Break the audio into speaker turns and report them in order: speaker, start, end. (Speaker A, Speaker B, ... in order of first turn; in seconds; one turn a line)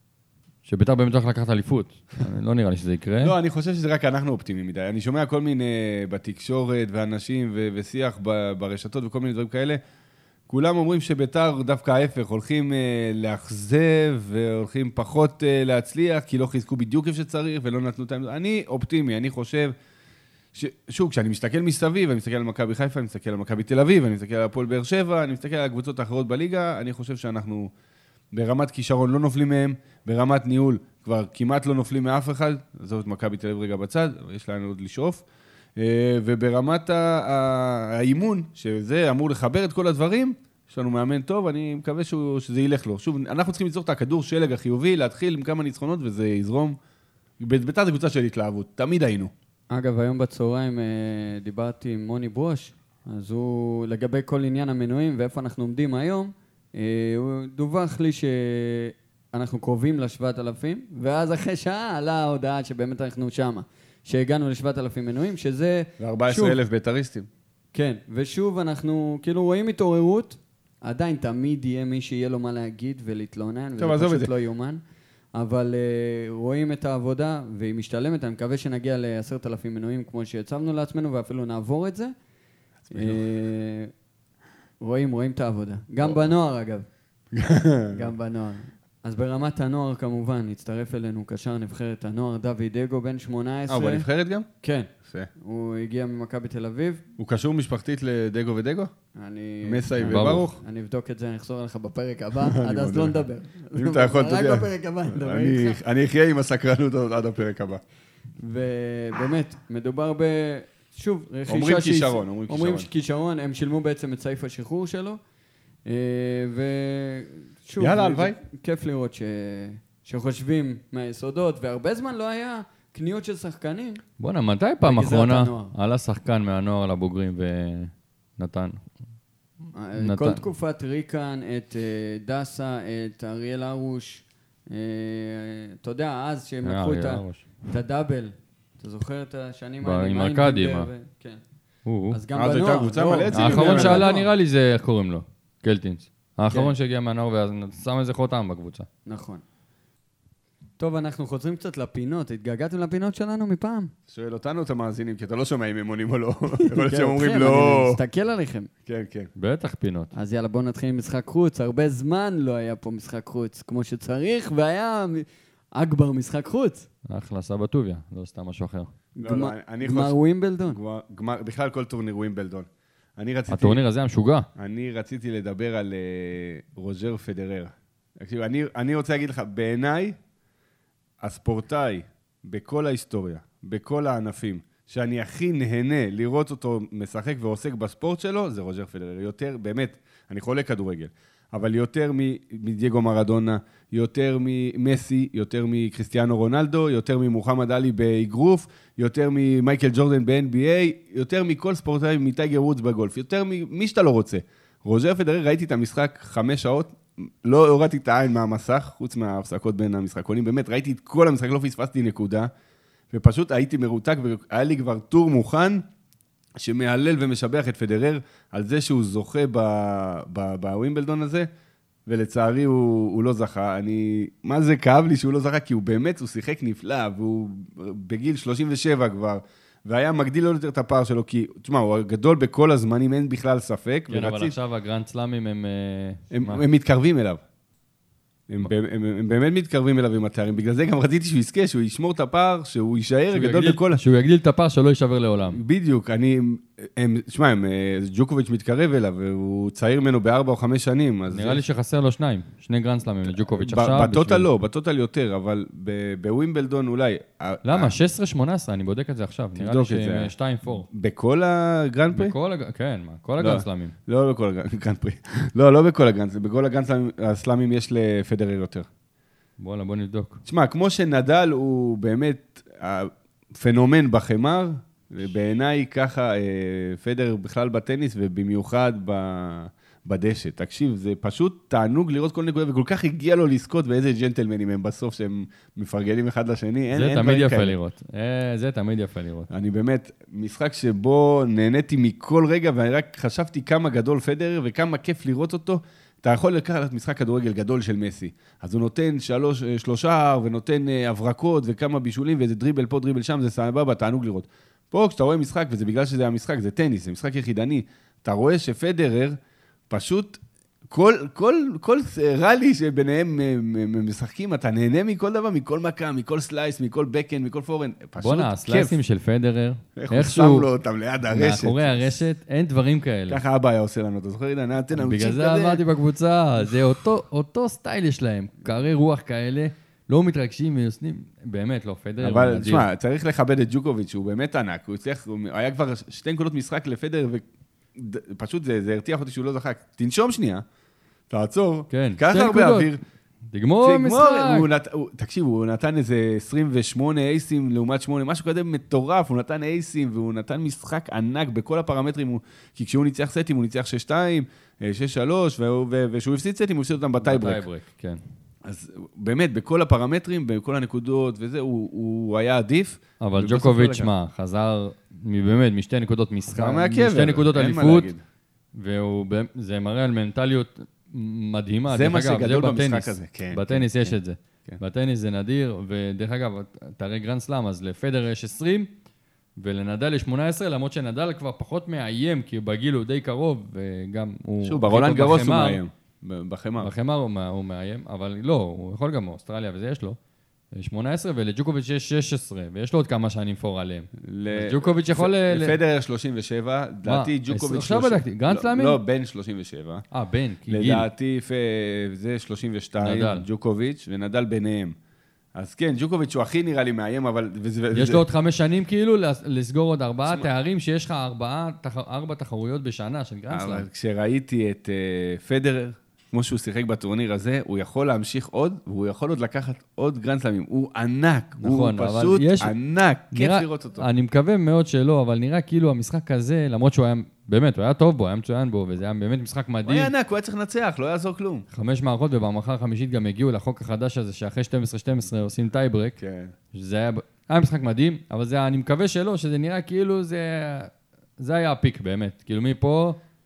Speaker A: 0.7-3.3
Speaker B: 3.2-9.8
Speaker B: 10.5-19.7
Speaker B: 20.5-27.7
Speaker B: 28.3-35.2
Speaker B: 35.8-46.8
Speaker B: 47.4-49.3
Speaker C: 49.7-66.6
Speaker B: 66.0-67.3
Speaker C: 67.7-74.8
Speaker B: 73.8-74.3
Speaker C: 75.3-82.1
Speaker B: 82.9-83.2
Speaker C: 82.9-83.9
Speaker C: 84.8-86.9
Speaker B: 87.3-88.1
Speaker C: 87.9-94.1
Speaker B: 93.7-94.5
Speaker C: 94.6-97.0
Speaker B: 95.0-95.3
Speaker B: 97.2-98.9
Speaker C: 99.2-105.8
Speaker B: 99.6-100.5
Speaker A: 100.0-100.6
Speaker B: 102.4-107.8
Speaker C: 108.4-115.2
Speaker B: 111.5-112.9
Speaker C: 115.9-124.0
Speaker B: 117.8-118.4
Speaker A: 124.2-128.8
Speaker C: 124.8-125.7
Speaker C: 129.7-141.4
Speaker A: 130.0-130.4
Speaker A: 136.7-137.4
Speaker A: 139.8-140.9
Speaker A: 141.9-142.2
Speaker C: 142.1-144.3
Speaker B: 142.3-144.1
Speaker A: 143.3-148.9
Speaker C: 149.1-149.4
Speaker C: 150.8-153.9
Speaker B: 154.1-158.0
Speaker C: 156.6-158.7
Speaker B: 158.9-159.3
Speaker A: 159.4-160.1
Speaker C: 160.1-166.9
Speaker A: 167.1-168.9
Speaker C: 169.2-170.8
Speaker B: 169.2-170.2
Speaker B: 170.7-173.8
Speaker A: 173.5-174.5
Speaker B: 174.6-180.2
Speaker B: 181.2-212.5
Speaker B: 213.1-215.8
Speaker B: 216.6-221.5
Speaker B: 222.1-234.6
Speaker A: 234.1-236.6
Speaker B: 236.3-237.4
Speaker B: 238.5-244.0
Speaker A: 243.3-245.6
Speaker B: 245.5-251.6
Speaker A: 251.3-254.5
Speaker B: 253.2-257.9
Speaker A: 257.6-260.9
Speaker B: 259.6-260.3
Speaker B: 260.9-262.4
Speaker A: 262.1-263.9
Speaker B: 263.4-268.9
Speaker A: 269.6-270.4
Speaker B: 270.5-287.8
Speaker A: 286.9-289.5
Speaker B: 289.5-309.4
Speaker B: 309.9-319.0
Speaker A: 318.2-320.7
Speaker B: 320.0-322.2
Speaker A: 321.3-323.4
Speaker B: 323.3-325.8
Speaker A: 324.9-332.9
Speaker B: 332.2-337.4
Speaker B: 337.9-340.6
Speaker B: 341.3-343.0
Speaker A: 341.9-342.9
Speaker A: 343.5-344.7
Speaker B: 343.8-357.6
Speaker A: 357.2-358.2
Speaker B: 358.6-364.1
Speaker A: 363.2-368.1
Speaker B: 366.5-368.2
Speaker A: 368.8-378.9
Speaker B: 371.9-374.8
Speaker A: 379.6-385.8
Speaker B: 384.6-386.9
Speaker A: 386.8-390.2
Speaker A: 390.8-395.8
Speaker B: 394.2-400.1
Speaker A: 397.1-399.0
Speaker A: 400.1-401.1
Speaker B: 400.7-405.0
Speaker A: 403.0-403.5
Speaker B: 405.6-408.2
Speaker A: 407.9-413.9
Speaker B: 413.5-424.1
Speaker A: 421.6-422.7
Speaker A: 423.3-430.1
Speaker B: 429.9-431.6
Speaker A: 431.7-436.2
Speaker B: 436.2-436.5
Speaker A: 436.7-443.2